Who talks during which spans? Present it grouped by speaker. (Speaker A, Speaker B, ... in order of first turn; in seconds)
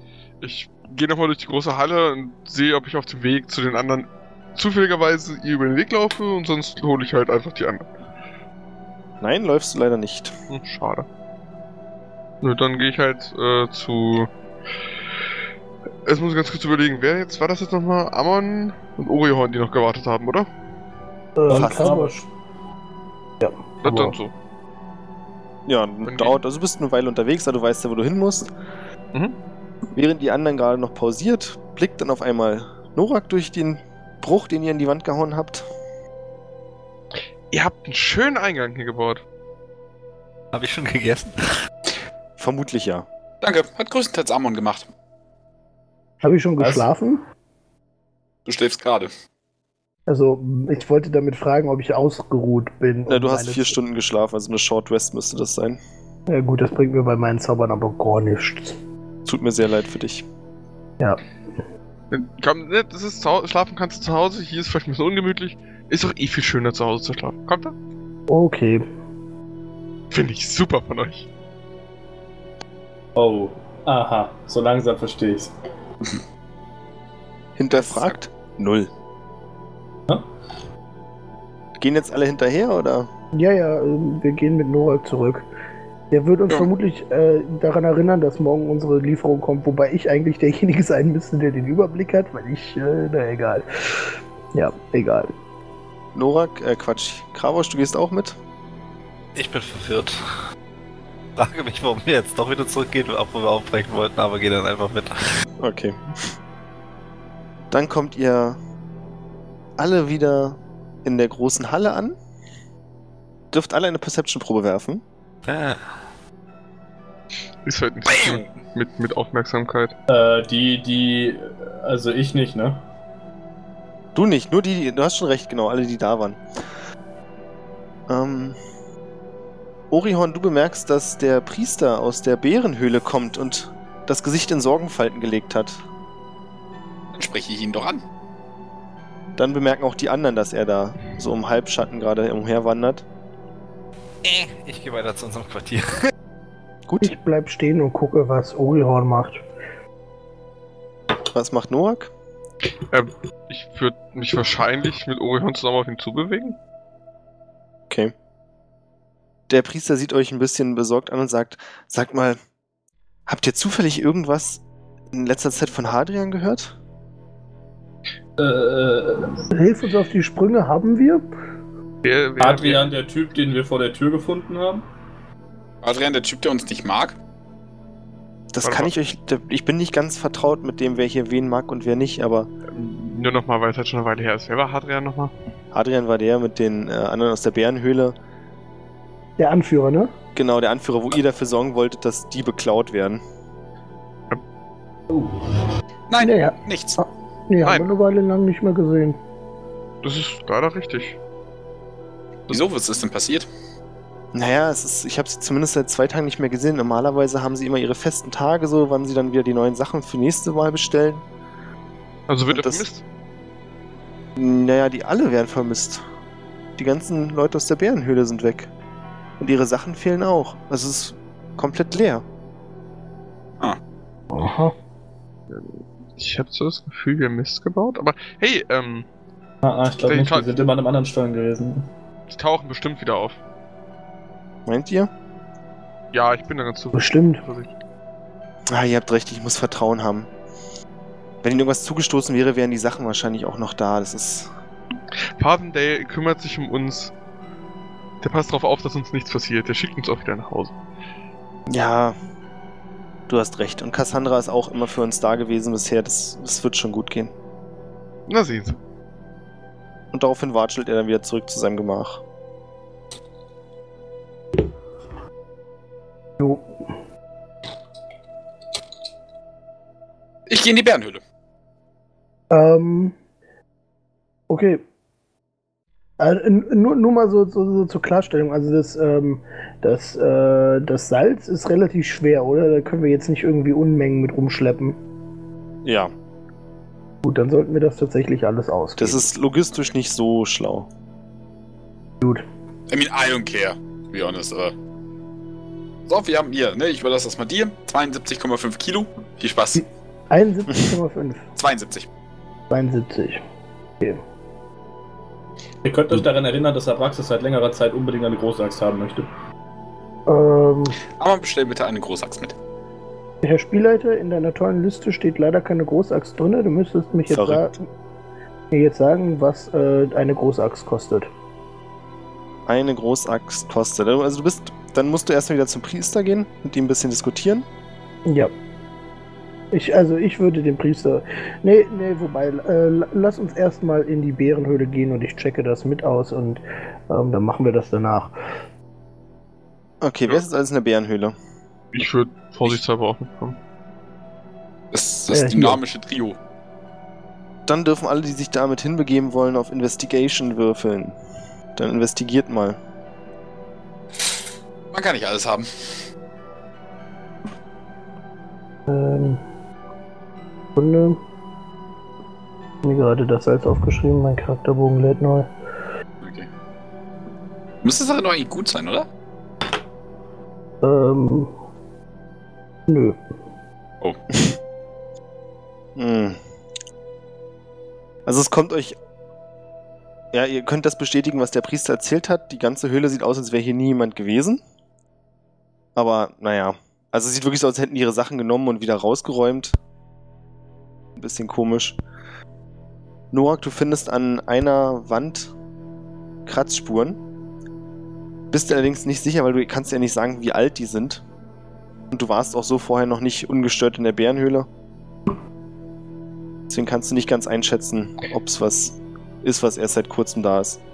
Speaker A: 0.4-7.9, 10.5-11.1, 12.4-14.3, 16.1-20.5, 23.8-24.3, 26.1-26.3, 37.5-39.2, 62.1-67.7, 70.1-71.3, 117.6-119.9, 152.9-156.6, 172.0-172.9, 178.6-178.9, 182.7-185.3, 197.6-197.9, 200.0-201.2, 212.3-213.0, 225.5-229.1, 230.0-230.5, 232.3-233.4, 236.1-237.7, 245.4-247.1, 248.2-250.7, 258.3-258.8, 341.9-343.6
Speaker B: 9.2-10.3, 21.5-22.0, 25.7-28.5, 29.9-35.6, 42.4-43.1, 53.1-55.8, 59.2-60.2, 77.6-78.9, 81.8-83.1, 96.1-98.4, 105.6-106.3, 107.7-108.6, 109.8-112.2, 113.5-115.0, 124.1-126.4, 128.1-128.6, 129.9-135.8, 139.4-143.0, 146.9-147.1, 151.3-152.1, 159.5-162.4, 163.3-166.7, 178.5-182.5, 185.7-188.2, 190.3-193.2, 204.3-211.2, 212.5-212.9, 214.4-216.0, 216.8-218.7, 219.4-222.2, 234.7-235.1, 238.7-240.3, 241.4-244.5, 251.7-252.2, 253.3-257.3, 260.1-262.2, 285.8-286.1, 289.0-290.9, 317.3-317.7, 322.7-327.6, 340.0-341.3, 347.7-351.2, 351.8-352.8, 375.9-376.4, 378.2-379.0, 380.3-384.6, 385.9-389.8, 391.2-392.0, 393.3-395.5, 396.4-397.2, 398.5-401.2, 402.1-404.7, 406.7-410.8
Speaker C: 21.4-22.2, 23.4-24.1, 46.2-47.2, 50.1-53.8, 56.3-58.8, 68.3-68.8, 83.3-85.5, 86.1-95.3, 147.0-149.4, 169.5-171.2, 189.4-190.1, 196.2-199.2, 224.3-224.7, 236.9-237.4, 266.4-266.7, 272.5-273.1, 274.5-274.8, 276.2-285.0, 287.2-289.2, 299.8-301.4, 302.7-303.4, 310.3-311.0, 313.4-317.8, 318.7-321.3, 328.3-328.5, 329.7-338.3, 345.3-345.8, 358.9-359.4, 360.8-361.2, 362.8-365.5, 370.8-371.5, 372.9-373.2
Speaker D: 21.5-22.3, 73.2-75.5, 120.1-122.8, 168.4-169.5, 172.4-174.8, 229.6-231.9, 305.8-309.3
Speaker E: 40.5-41.4, 99.3-100.2, 101.4-105.1, 115.5-115.8, 144.2-145.9
Speaker F: 43.4-44.9, 48.5-49.1, 77.9-78.2, 118.1-118.4, 137.1-138.0, 175.8-177.2, 196.1-197.0, 202.5-203.5, 270.5-271.2, 292.9-294.7, 296.1-299.8, 301.6-302.1, 311.2-312.5, 344.9-346.4, 354.9-355.7, 366.2-366.5, 367.8-369.1